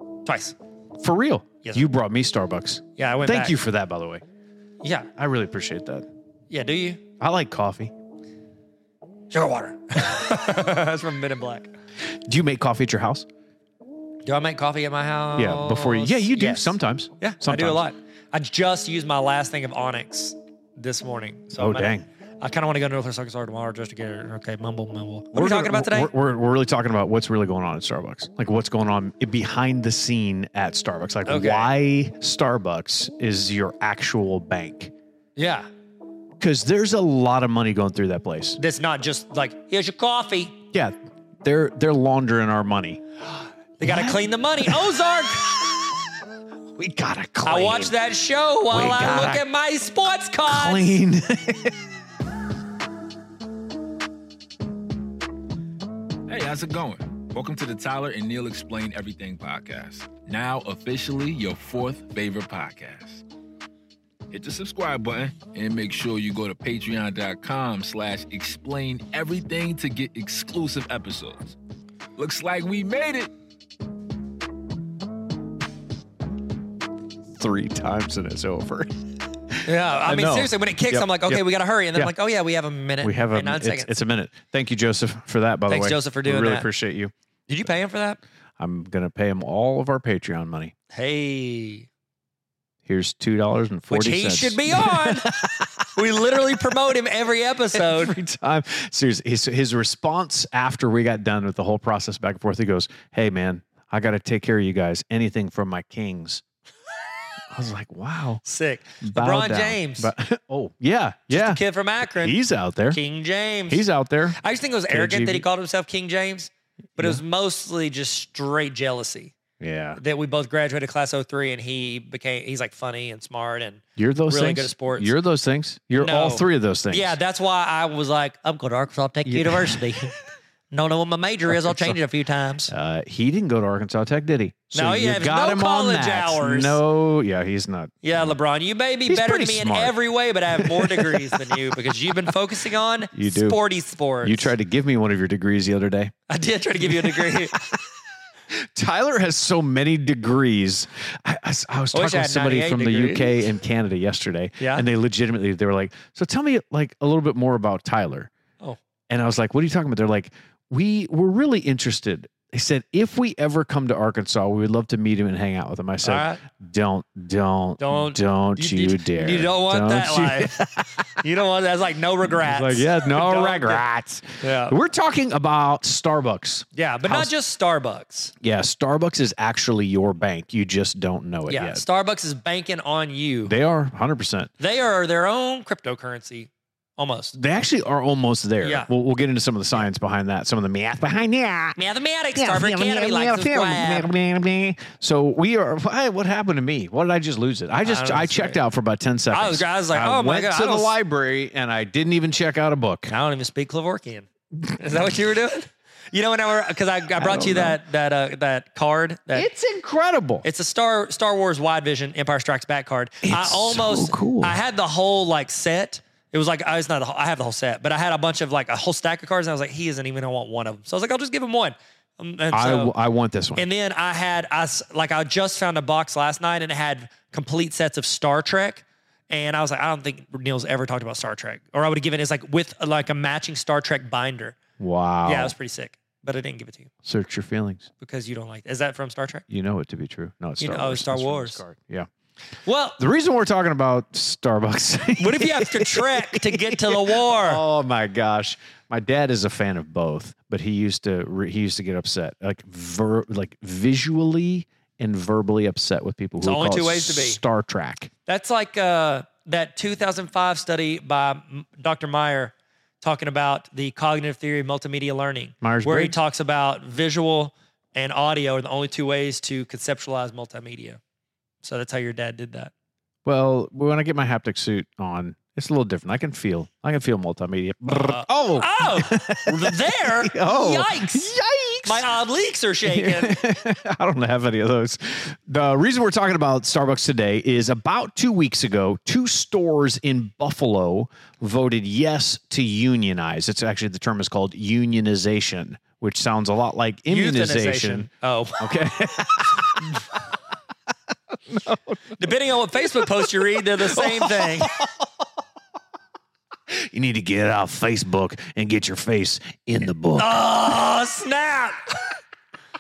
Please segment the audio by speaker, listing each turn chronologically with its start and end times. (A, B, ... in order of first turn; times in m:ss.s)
0:00.2-0:00.5 A
0:01.0-0:04.2 B
0:03.0-0:03.6 A
0:04.8-0:05.1 A
0:05.2-0:06.1 B
0:06.5-0:07.0 A
0:07.2-0:07.9 B
0:09.3-0:11.7 A
0:12.1-0:13.3 B
0:14.2-0:26.1 A
0:15.4-0:17.8 B
0:21.6-0:22.0 B
0:25.3-0:34.9 B
0:31.2-0:31.7 A
0:35.4-0:35.7 A
0:36.4-0:38.6 B
0:38.6-0:40.6 A
0:40.7-0:43.0 B
0:43.8-0:45.5 A
0:43.8-0:46.0 B
0:46.8-0:48.0 B
0:47.4-0:51.0 A
0:48.7-0:49.4 B
0:50.4-0:51.9 B
0:56.3-1:03.2 C
1:04.3-1:11.6 C
1:12.2-1:13.3 C
1:17.4-1:19.0 B
1:19.5-1:21.4 B
1:19.6-1:23.9 A
1:23.0-1:27.1 B
1:25.7-1:26.7 A
1:27.5-1:28.2 A
1:28.6-1:30.7 B
1:30.9-1:31.9 A
1:32.8-1:35.9 B
1:33.9-1:35.3 A
1:35.9-1:38.2 A
1:37.7-1:46.4 B
1:47.5-1:48.4 B
1:48.4-1:50.1 A
1:49.0-1:53.0 B
1:51.3-1:52.4 A
1:52.9-1:53.8 A
1:53.7-1:54.4 B
1:54.4-1:59.3 A
1:54.9-1:55.4 B
1:59.6-2:00.0 B
2:00.0-2:05.1 A
2:04.0-2:07.2 B
2:05.9-2:10.1 A
2:09.2-2:09.9 B
2:10.7-2:12.7 A
2:11.5-2:12.0 B
2:12.7-2:18.3 B
2:14.7-2:16.8 A
2:18.0-2:24.5 A
2:19.1-2:20.0 B
2:20.5-2:21.6 B
2:23.1-2:23.6 B
2:24.2-2:26.1 B
2:26.3-2:27.6 A
2:26.8-2:27.8 B
2:28.5-2:38.3 B
2:31.9-2:33.4 A
2:34.6-2:34.8 A
2:39.1-2:51.2 B
2:46.0-2:46.4 A
2:47.8-2:50.6 A
2:51.2-2:53.8 A
2:52.3-2:57.3 B
2:54.4-2:54.8 A
2:56.7-2:58.3 A
2:58.4-3:01.8 B
3:01.5-3:03.5 A
3:03.4-3:04.5 B
3:04.6-3:07.4 A
3:07.3-3:11.8 B
3:08.6-3:08.9 A
3:11.8-3:14.1 A
3:12.3-3:23.1 B
3:17.8-3:18.6 A
3:19.3-3:20.9 A
3:23.1-3:29.5 A
3:27.2-3:27.8 B
3:29.3-3:30.4 B
3:30.4-3:42.9 A
3:33.2-3:34.6 B
3:42.5-3:43.6 B
3:43.6-3:54.6 A
3:54.8-3:55.5 B
3:55.2-3:56.9 A
3:57.0-3:57.9 B
3:58.0-3:59.4 A
3:59.5-4:02.1 B
4:00.6-4:01.6 A
4:02.6-4:03.0 A
4:03.0-4:18.1 B
4:05.2-4:07.6 A
4:16.4-4:17.4 A
4:18.3-4:31.0 A
4:25.6-4:26.2 B
4:31.6-4:32.7 A
4:33.2-4:42.1 B
4:37.9-4:41.3 A
4:41.8-4:43.4 A
4:42.8-5:00.2 B
4:57.1-4:58.7 A
5:01.3-5:05.2 B
5:02.2-5:04.7 A
5:06.7-5:10.4 B
5:10.2-5:12.2 A